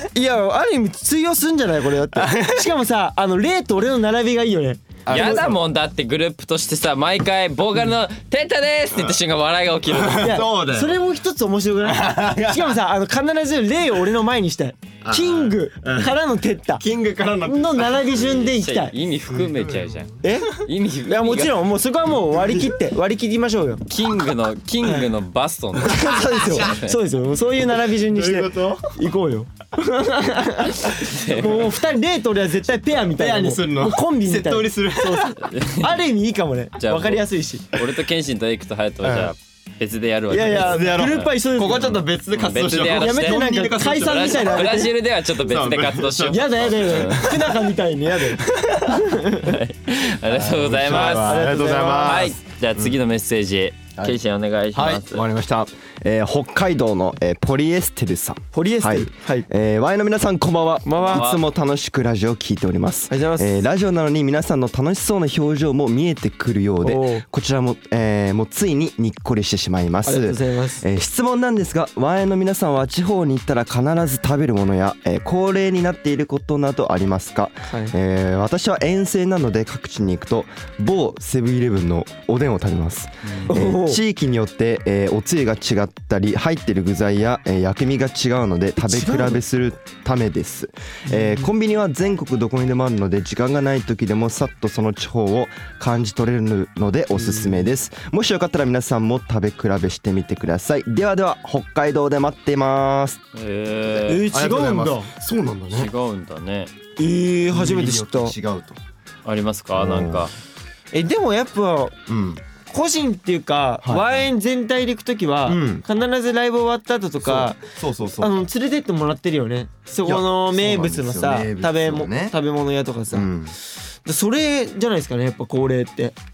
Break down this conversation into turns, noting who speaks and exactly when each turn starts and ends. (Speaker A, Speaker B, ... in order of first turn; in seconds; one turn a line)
Speaker A: 0.1-5.5
Speaker B: 2.1-2.7
Speaker B: 5.0-5.6
Speaker C: 5.1-10.4
Speaker B: 9.9-11.0
Speaker A: 10.2-16.8
Speaker B: 11.8-12.8
Speaker B: 15.0-16.2
Speaker B: 16.8-18.5
Speaker A: 17.4-18.9
Speaker C: 18.1-21.6
Speaker B: 19.3-20.1
Speaker A: 20.2-23.8
Speaker B: 22.2-22.8
Speaker C: 23.9-26.9
Speaker B: 25.8-26.8
Speaker A: 25.8-37.7
Speaker B: 27.8-28.9
Speaker C: 30.8-31.8
Speaker B: 32.9-35.4
Speaker C: 35.4-36.0
Speaker C: 36.8-41.3
Speaker B: 39.0-39.3
Speaker A: 40.3-42.0
Speaker B: 40.4-49.1
Speaker C: 42.3-47.3
Speaker A: 42.9-44.9
Speaker A: 46.3-49.5
Speaker C: 49.4-51.5
Speaker B: 50.2-53.0
Speaker A: 50.9-52.3
Speaker C: 52.0-55.2
Speaker B: 54.7-103.2
Speaker A: 58.5-59.5
Speaker A: 60.8-61.3
Speaker C: 61.0-61.4
Speaker A: 63.1-63.6
Speaker A: 66.8-67.2
Speaker A: 70.0-70.8
Speaker A: 77.7-77.9
Speaker A: 83.5-84.0
Speaker A: 88.8-89.4
Speaker A: 91.1-91.5
Speaker A: 97.2-97.7
Speaker C: 103.3-104.3
Speaker A: 104.1-105.1
Speaker B: 104.3-105.9
Speaker C: 105.7-106.7
Speaker A: 107.0-108.3
Speaker B: 107.5-108.8
Speaker C: 109.2-110.3
Speaker B: 109.7-110.3
Speaker A: 110.9-112.0
Speaker B: 112.1-112.4
Speaker A: 112.7-117.6
Speaker B: 113.8-114.3
Speaker B: 115.5-115.8
Speaker B: 117.2-118.4
Speaker A: 118.2-123.3
Speaker B: 120.0-122.4
Speaker B: 123.1-123.5
Speaker A: 124.0-126.2